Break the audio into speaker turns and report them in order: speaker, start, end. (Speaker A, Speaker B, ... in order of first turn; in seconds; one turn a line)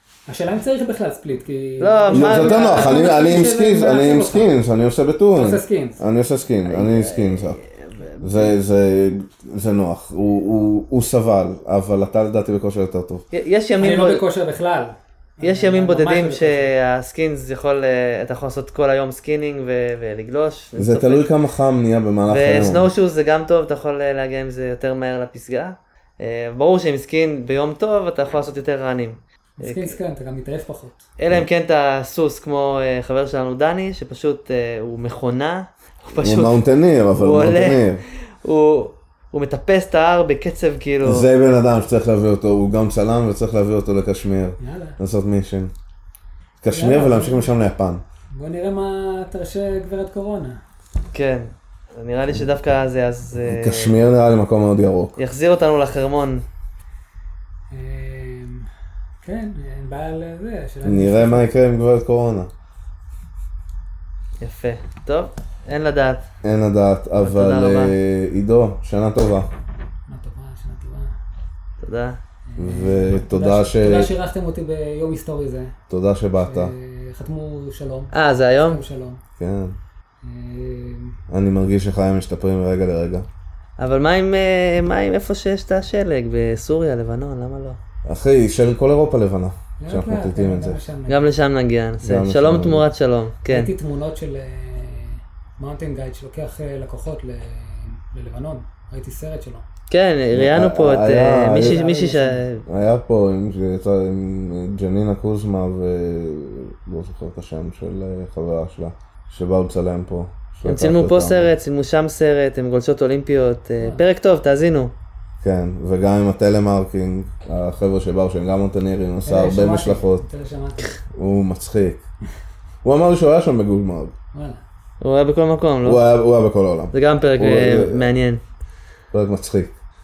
Speaker A: 0.3-4.5
Speaker B: 1.8-3.0
Speaker C: 2.1-7.6
Speaker A: 5.3-6.0
Speaker B: 6.7-8.5
Speaker C: 8.2-13.2
Speaker B: 13.3-14.2
Speaker A: 13.8-16.7
Speaker B: 15.4-21.3
Speaker C: 20.8-22.9
Speaker B: 22.3-30.0
Speaker A: 29.6-31.1
Speaker B: 31.2-41.3
Speaker C: 36.2-38.0
Speaker C: 41.0-45.7
Speaker A: 44.6-45.0
Speaker C: 46.6-48.0
Speaker A: 46.7-47.5
Speaker A: 48.3-50.6
Speaker B: 51.1-54.1
Speaker C: 53.4-55.1
Speaker B: 55.2-56.4
Speaker A: 57.7-58.7
Speaker A: 59.2-61.5
Speaker C: 60.8-62.5
Speaker B: 64.4-66.3
Speaker C: 66.4-69.5
Speaker B: 67.2-67.9
Speaker A: 70.1-71.1
Speaker B: 71.8-72.2
Speaker A: 72.5-75.8
Speaker C: 72.6-74.1
Speaker C: 75.9-76.7
Speaker A: 76.4-78.1
Speaker B: 78.1-78.8
Speaker A: 78.7-79.2
Speaker C: 79.4-79.8
Speaker A: 80.2-81.2
Speaker C: 81.3-83.3
Speaker B: 83.8-87.8
Speaker C: 88.0-90.8
Speaker A: 89.8-91.3
Speaker B: 91.1-93.7
Speaker C: 92.0-92.8
Speaker A: 93.5-99.6
Speaker B: 99.9-102.7
Speaker C: 100.3-101.8
Speaker A: 101.5-102.5
Speaker C: 102.7-111.5
Speaker B: 110.6-114.9
Speaker C: 115.4-120.2
Speaker A: 119.2-120.9
Speaker C: 121.1-122.0
Speaker C: 122.8-124.1
Speaker A: 124.3-124.6
Speaker B: 125.0-126.0
Speaker C: 125.8-128.1
Speaker B: 126.9-128.4
Speaker C: 129.1-129.8